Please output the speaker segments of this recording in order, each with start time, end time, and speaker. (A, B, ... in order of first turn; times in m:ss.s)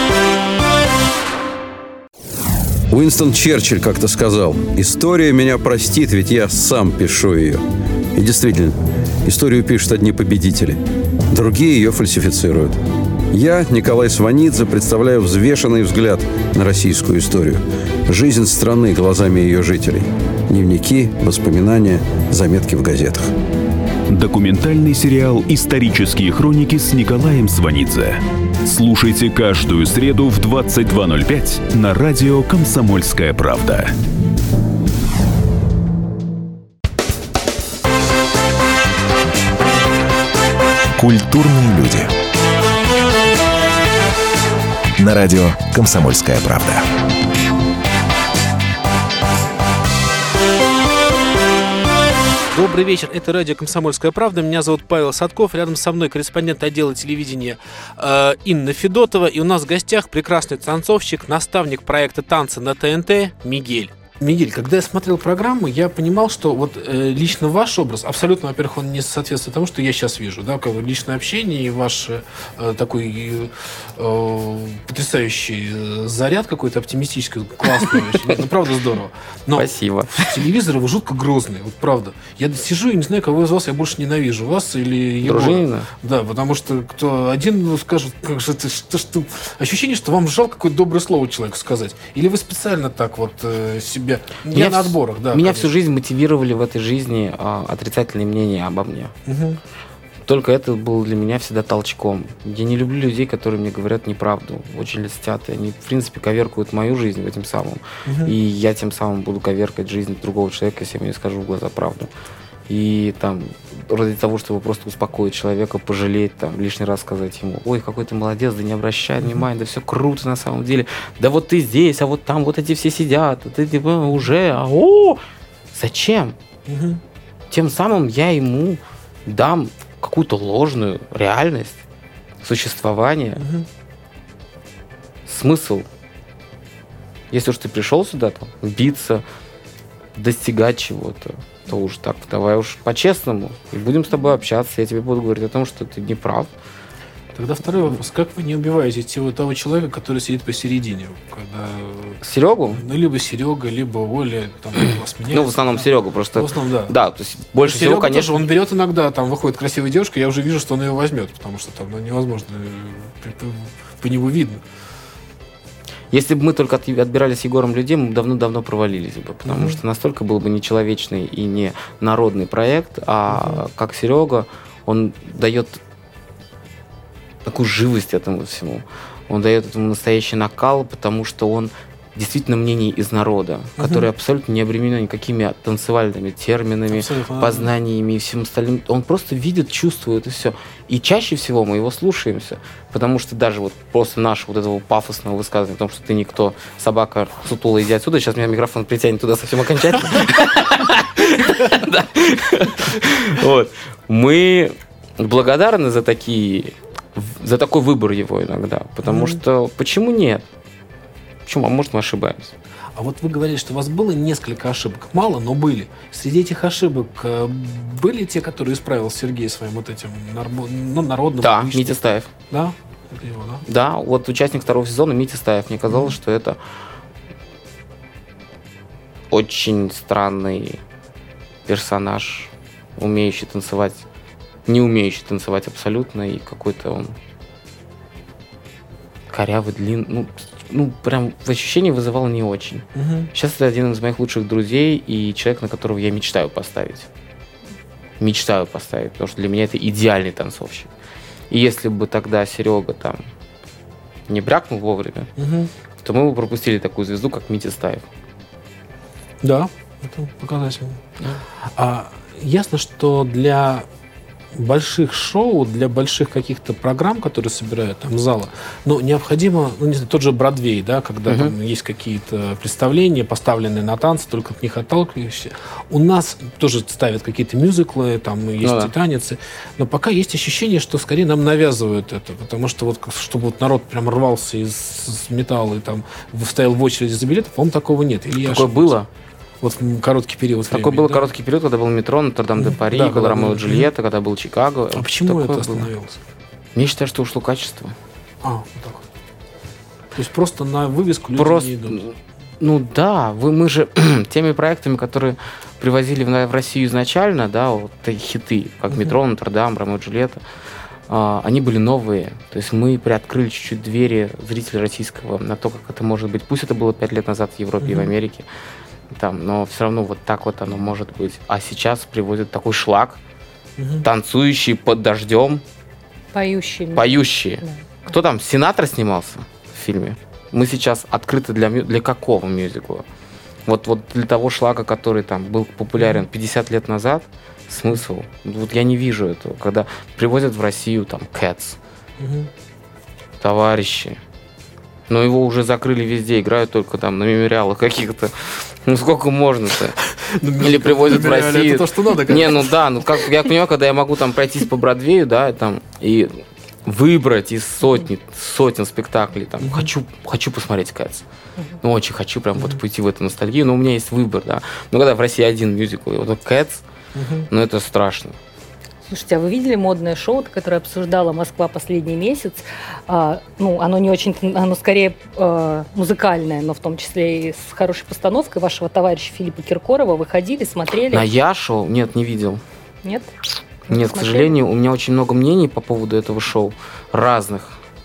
0:02.9-0:23.3 A
0:24.1-0:34.0 B
0:41.0-0:42.1 C
0:45.0-0:46.9 C
0:52.5-1:35.7 D
1:19.6-1:20.4 E
1:25.2-1:25.9 E
1:34.5-1:39.1 E
1:39.3-1:39.6 D
1:40.3-1:52.1 E
1:48.1-1:48.4 D
1:52.7-2:05.2 E
2:05.7-2:06.4 E
2:06.7-2:07.0 D
2:07.5-2:11.8 E
2:12.4-2:13.5 E
2:13.4-2:13.7 D
2:15.3-2:15.9 E
2:17.3-2:19.2 E
2:20.2-2:26.5 E
2:27.3-2:32.2 D
2:32.2-2:32.8 E
2:32.8-2:35.8 D
2:35.3-2:38.4 E
2:36.4-2:36.9 D
2:37.6-2:44.6 D
2:46.1-2:55.8 E
2:49.5-2:49.8 D
2:53.3-2:53.6 D
2:57.4-3:30.4 E
3:03.8-3:04.1 D
3:06.9-3:07.7 D
3:29.0-3:29.4 D
3:31.5-3:32.5 E
3:33.0-3:42.0 D
3:41.4-3:42.3 E
3:42.5-3:43.6 D
3:43.7-3:46.6 E
3:45.9-3:46.2 D
3:49.3-3:50.8 E
3:51.7-3:54.0 E
3:54.7-3:57.2 E
3:59.3-4:07.1 E
4:03.0-4:03.3 D
4:08.2-4:10.9 E
4:11.5-4:13.2 E
4:14.3-4:15.3 E
4:15.4-4:15.7 D
4:16.0-4:18.0 E
4:19.4-4:21.0 D
4:21.8-4:23.9 D
4:24.6-4:48.9 D
4:31.3-4:31.5 E
4:38.6-4:38.9 E
4:48.4-4:49.1 E
4:49.6-4:51.3 D
4:50.7-4:55.9 E
4:52.6-4:53.9 D
4:55.0-4:56.2 D
4:56.8-4:57.9 E
4:58.4-4:59.0 D
5:00.2-5:02.0 D
5:01.4-5:10.4 E
5:11.1-5:18.5 E
5:17.8-5:18.1 D
5:19.1-5:23.2 E
5:23.8-5:24.1 D
5:24.0-5:25.6 E
5:26.3-5:28.1 F
5:27.0-5:33.0 E
5:33.7-5:41.8 E
5:36.0-5:36.2 D
5:42.2-5:42.5 D
5:43.4-5:44.2 E
5:45.1-5:50.0 E
5:50.1-5:52.8 D
5:50.6-6:01.2 E
5:59.6-5:59.9 D
6:01.8-6:06.8 E
6:07.2-6:07.5 D
6:07.5-6:08.4 E
6:09.0-6:21.3 F
6:21.1-6:22.6 E
6:23.0-6:23.3 F
6:23.9-6:27.8 E
6:23.9-6:24.6 F